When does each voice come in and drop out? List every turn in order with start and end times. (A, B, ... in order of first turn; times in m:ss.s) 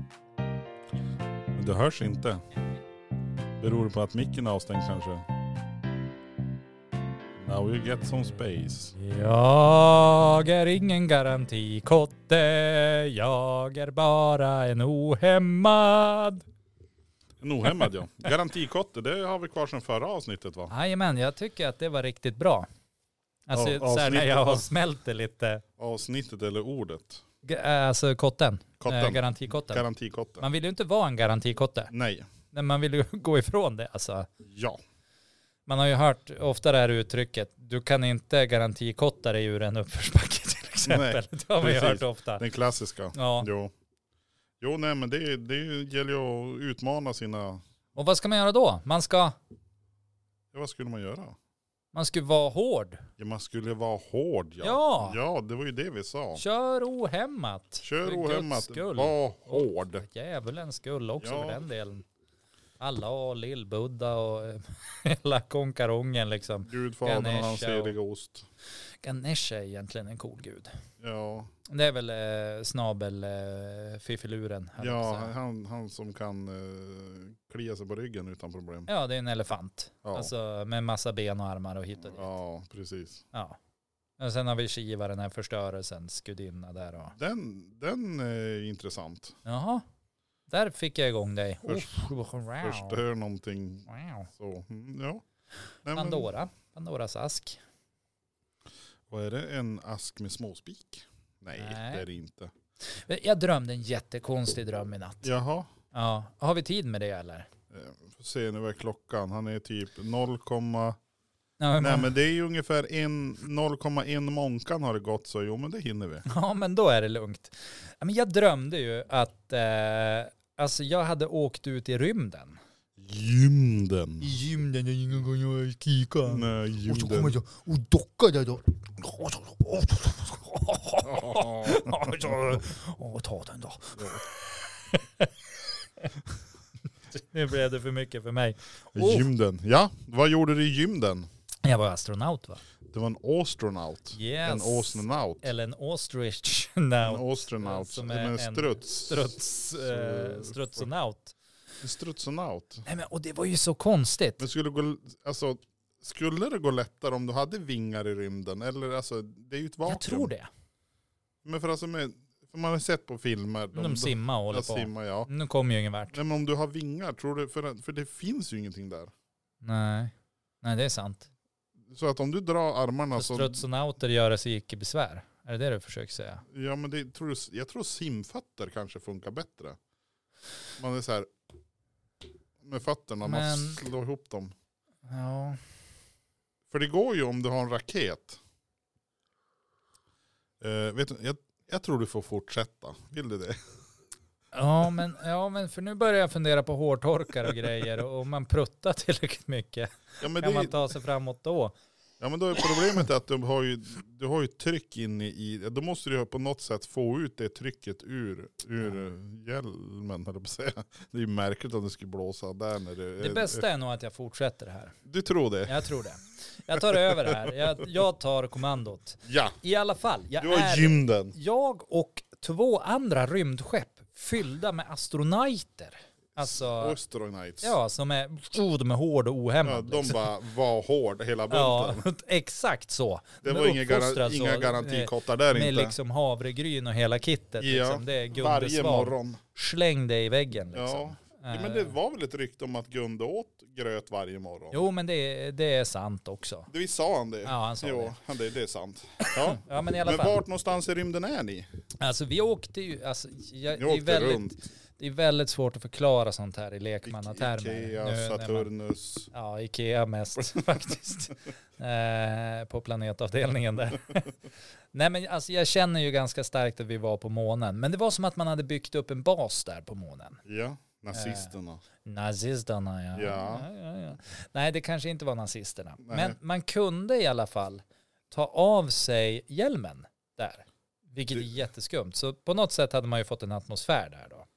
0:01.5-0:02.4 A
0:03.6-0:05.3 A
0:07.4-0:08.9 A
0:08.9-0:16.5 B
0:17.4-0:20.7 A
0:20.7-0:22.7 B
0:23.5-0:25.6 B
0:23.5-0:24.6 A
0:25.8-0:27.2 A
0:27.4-0:29.8 B
0:28.8-0:30.5 A
0:30.4-0:31.9 B
0:31.9-0:32.3 A
0:32.5-0:34.3 B
0:34.4-0:34.8 A
0:35.7-0:42.4 B
0:40.9-0:43.7 A
0:43.2-0:43.5 B
0:44.6-0:47.6 A
0:48.0-0:49.4 B
0:50.5-0:51.4 A
0:51.9-0:53.0 B
0:53.2-0:56.4 A
0:54.6-0:55.2 B
0:56.4-1:02.0 B
0:57.8-1:00.0 A
1:01.2-1:01.6 A
1:02.8-1:08.0 B
1:06.6-1:08.5 A
1:09.0-1:10.7 B
1:11.0-1:11.5 A
1:11.7-1:15.3 B
1:14.8-1:18.9 A
1:18.9-1:22.3 B
1:20.0-1:20.3 A
1:22.1-1:23.3 A
1:23.3-1:23.6 B
1:24.2-1:27.2 B
1:27.1-1:29.4 A
1:29.4-1:29.8 B
1:30.5-1:33.0 B
1:31.6-1:32.1 A
1:32.6-1:35.2 A
1:33.9-1:34.3 B
1:35.8-1:36.3 A
1:35.9-1:37.6 B
1:39.1-1:42.5 A
1:41.6-1:42.1 B
1:42.9-1:45.3 B
1:45.2-1:45.7 A
1:45.9-1:47.5 B
1:47.7-1:51.0 A
1:51.6-1:52.1 B
1:51.8-1:56.2 A
1:56.3-2:02.6 B
2:03.0-2:04.4 A
2:04.2-2:16.1 B
2:06.3-2:07.4 A
2:11.0-2:12.1 A
2:14.0-2:14.2 A
2:17.1-2:19.3 B
2:18.9-2:21.3 A
2:21.6-2:22.6 B
2:22.9-2:25.5 A
2:24.2-2:31.4 B
2:27.0-2:30.9 A
2:31.8-2:32.8 A
2:32.9-2:34.4 B
2:34.4-2:40.3 A
2:39.8-2:40.5 B
2:41.4-2:45.3 A
2:43.7-2:46.2 B
2:46.1-2:49.1 A
2:49.6-2:51.3 B
2:51.9-2:53.6 A
2:53.2-2:56.4 B
2:56.5-2:59.8 A
3:00.8-3:01.3 A
3:02.6-3:04.5 A
3:03.2-3:03.8 B
3:05.1-3:05.6 B
3:06.7-3:08.4 A
3:10.6-3:13.6 A
3:14.5-3:21.7 B
3:20.2-3:20.8 A
3:22.2-3:33.7 A
3:33.2-3:35.0 B
3:35.1-3:35.9 A
3:35.7-3:47.0 B
3:37.0-3:37.6 A
3:39.2-3:39.6 A
3:40.4-3:41.4 A
3:46.4-3:47.8 A
3:47.6-3:50.2 B
3:49.6-3:52.1 A
3:51.5-4:02.0 B
3:53.4-3:56.0 A
3:57.6-3:59.4 A
4:00.7-4:04.8 A
4:04.7-4:06.7 B
4:06.7-4:11.7 A
4:07.4-4:08.2 B
4:09.2-4:10.4 B
4:12.0-4:18.7 B
4:13.8-4:14.6 A
4:17.0-4:19.3 A
4:19.3-4:24.3 B
4:20.4-4:20.6 A
4:24.9-4:30.4 B
4:30.5-4:31.8 A
4:31.1-4:31.5 B
4:32.0-4:44.5 B
4:33.2-4:33.7 A
4:36.0-4:36.4 A